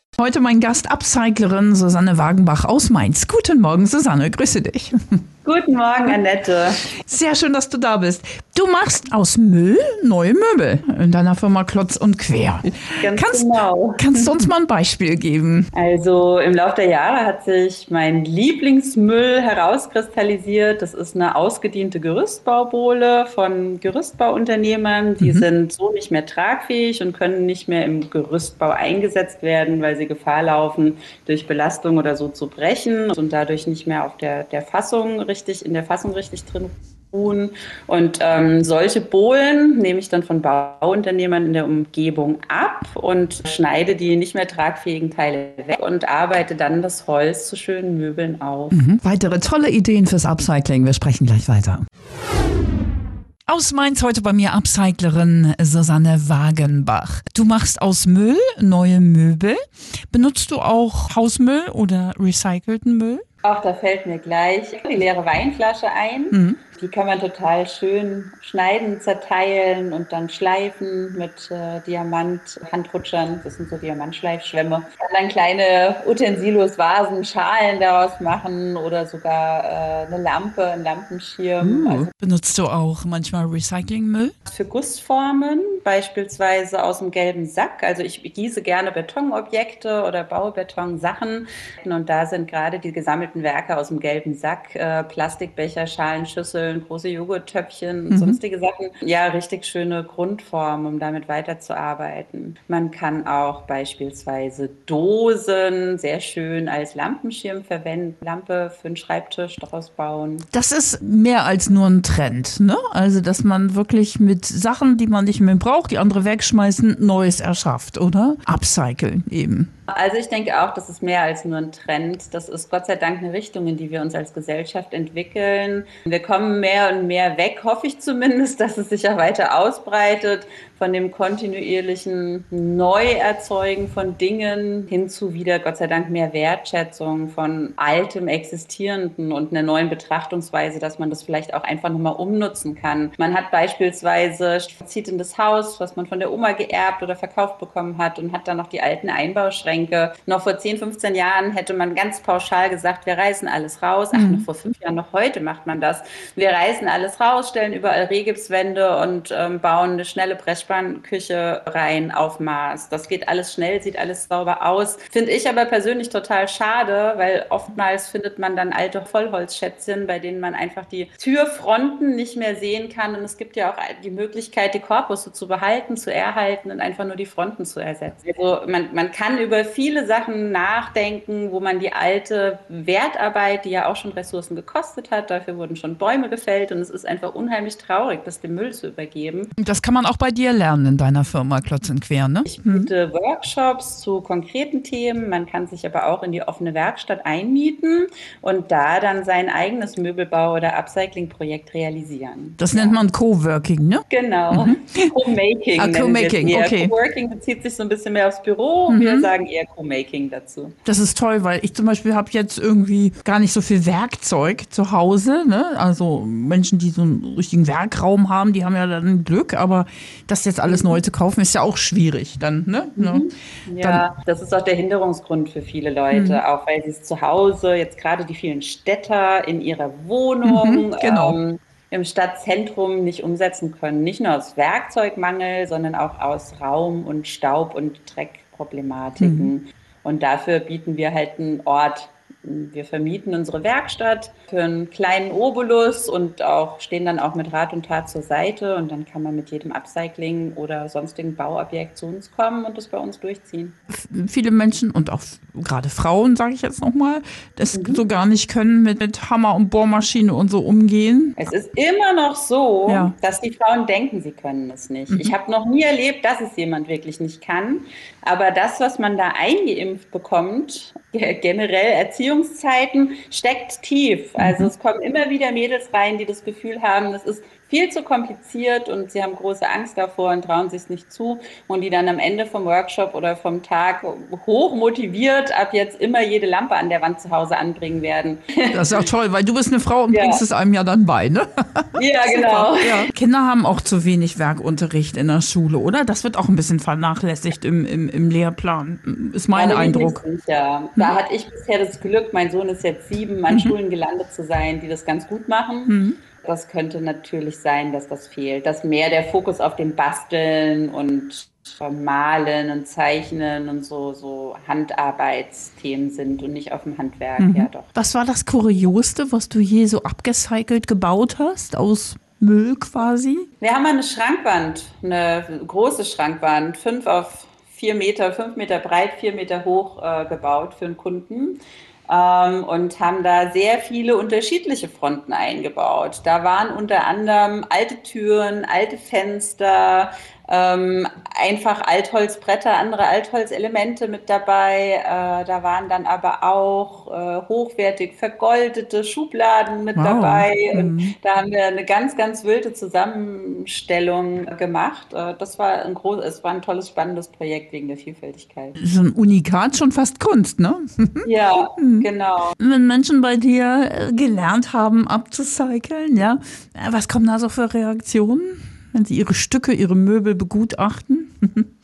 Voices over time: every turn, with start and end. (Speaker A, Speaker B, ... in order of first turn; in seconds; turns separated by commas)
Speaker A: 0.2-5.0, Speaker B: 5.4-6.8, Speaker A: 7.0-15.7, Speaker B: 13.0-14.3, Speaker B: 15.7-48.8, Speaker A: 25.2-25.5, Speaker A: 48.7-51.8, Speaker A: 53.5-59.6, Speaker A: 60.1-63.2, Speaker B: 63.4-82.1, Speaker A: 66.3-66.6, Speaker A: 81.6-84.3, Speaker B: 84.5-110.5, Speaker A: 98.1-98.4, Speaker A: 110.5-119.7, Speaker B: 119.9-189.5, Speaker A: 154.1-154.5, Speaker A: 189.6-192.9, Speaker B: 192.5-203.0, Speaker A: 202.6-205.2, Speaker B: 204.1-210.8, Speaker A: 205.8-206.9, Speaker A: 208.9-209.3, Speaker A: 210.8-223.3, Speaker B: 220.7-221.0, Speaker B: 223.0-253.8, Speaker A: 223.8-224.1, Speaker A: 226.1-226.4, Speaker A: 230.4-231.4, Speaker A: 239.2-239.5, Speaker A: 253.9-261.4, Speaker B: 257.7-258.0, Speaker B: 261.4-288.8, Speaker A: 262.9-263.1, Speaker A: 265.1-265.3, Speaker A: 274.4-274.7, Speaker A: 288.7-300.2, Speaker B: 290.1-290.4, Speaker B: 292.0-293.1, Speaker B: 299.5-317.9, Speaker A: 303.5-303.7, Speaker A: 305.9-306.2, Speaker A: 317.4-323.4, Speaker B: 323.6-358.8, Speaker A: 349.9-351.1, Speaker A: 358.8-361.3, Speaker B: 361.2-362.6, Speaker A: 361.8-362.1, Speaker A: 362.6-371.7